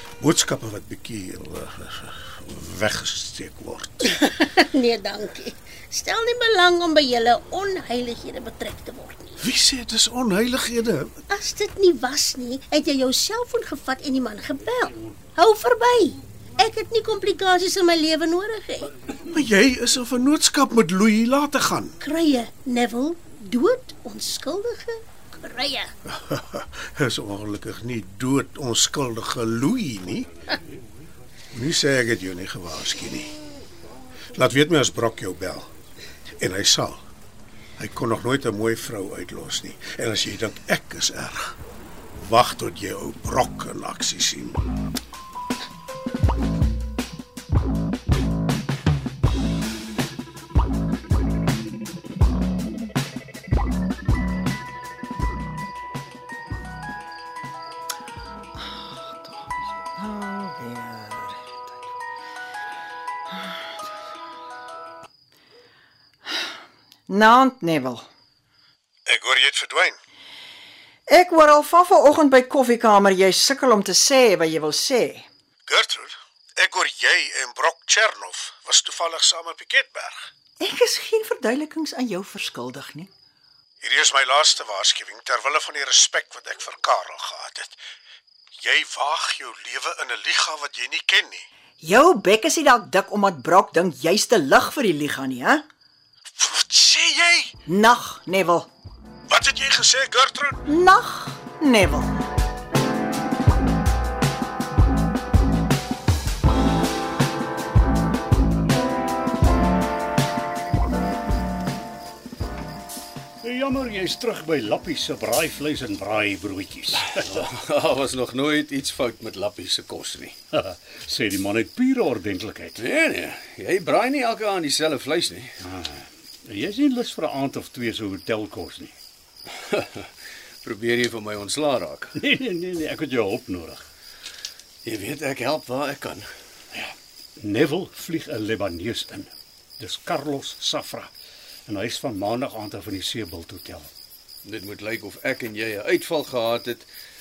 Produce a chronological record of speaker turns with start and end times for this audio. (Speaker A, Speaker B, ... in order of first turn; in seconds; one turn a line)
Speaker A: 0.2-4.1
Speaker B: 4.0-9.4
Speaker A: 9.4-11.2
Speaker B: 11.3-18.9
Speaker A: 19.3-22.0
Speaker B: 22.0-25.9
Speaker A: 26.0-30.3
Speaker A: 31.5-33.3
Speaker A: 34.3-35.7
Speaker A: 36.4-37.0
Speaker A: 37.8-41.5
Speaker A: 42.2-44.6
Speaker C: 58.6-61.7
Speaker C: 63.3-63.5
Speaker C: 67.1-68.1
Speaker A: 69.0-70.0
Speaker C: 71.1-75.3
Speaker A: 75.7-80.3
Speaker C: 80.6-83.1
Speaker A: 83.8-87.8
Speaker A: 88.6-91.5
Speaker C: 91.8-95.6
Speaker A: 96.4-97.5
Speaker C: 97.7-98.7
Speaker A: 99.3-100.7
Speaker C: 100.7-102.1
Speaker D: 113.4-117.4
Speaker E: 117.0-120.4
Speaker D: 120.5-122.8
Speaker E: 122.8-125.6
Speaker D: 125.6-128.9
Speaker E: 129.6-130.1
Speaker E: 130.6-132.2
Speaker D: 132.2-133.9
Speaker E: 134.8-136.3
Speaker D: 136.7-141.1
Speaker D: 141.7-143.9
Speaker E: 144.4-146.9